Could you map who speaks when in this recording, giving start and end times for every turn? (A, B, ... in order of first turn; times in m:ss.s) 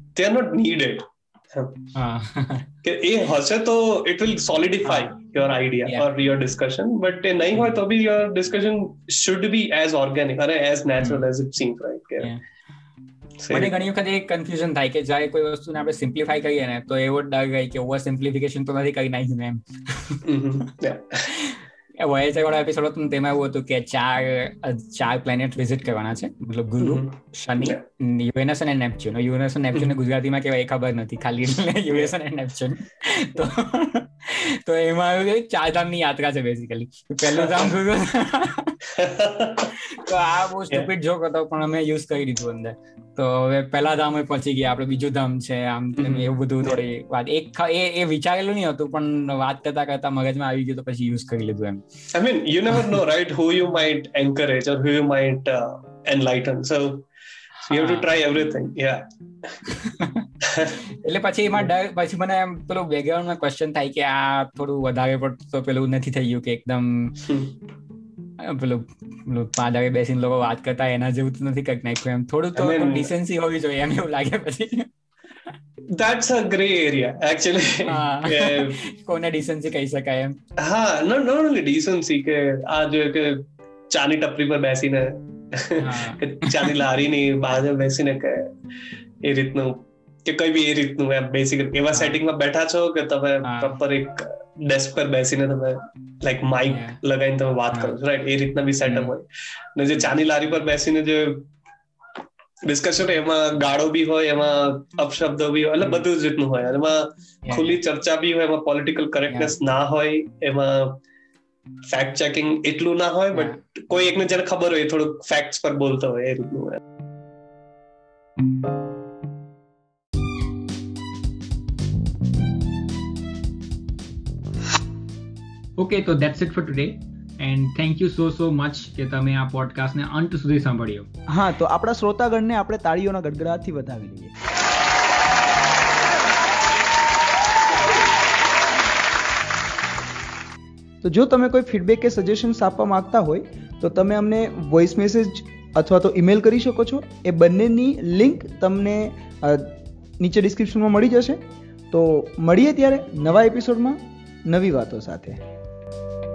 0:00.2-0:01.8 A
0:02.0-0:02.7 B
0:02.8-0:12.3 A
0:04.9-0:05.1 B
0:13.4-0:13.7 A
0:13.5-0:20.2 B
0:20.3-0:21.3 A
0:21.3-0:38.8 B
0:26.8-0:27.1 A
0:37.4-0:37.7 A
0:39.0-0:39.7 A
0:39.8-0:51.8 B
0:46.0-0:46.8 A
0:52.1-0:57.1 A
0:57.7-0:58.1 B
0:57.7-0:59.0 A
0:59.7-1:00.2 B
1:01.0-1:07.1 B
1:07.2-1:07.5 A
1:08.4-1:14.9 B
1:12.6-1:13.1 A
1:15.9-1:18.8 A
1:17.9-1:20.4 B
1:20.6-1:28.5 A
1:25.8-1:26.8 B
1:29.2-1:41.5 A
1:33.4-1:33.8 B
1:36.7-1:37.0 B
1:38.9-1:39.1 B
1:42.7-1:51.0 A
1:47.4-1:47.8 B
1:49.3-1:49.6 B
1:51.9-1:56.8 A
2:05.8-2:11.1 B
2:11.3-2:14.3 C
2:21.0-2:31.4 C
2:31.9-2:34.0 C
2:34.5-2:35.4 C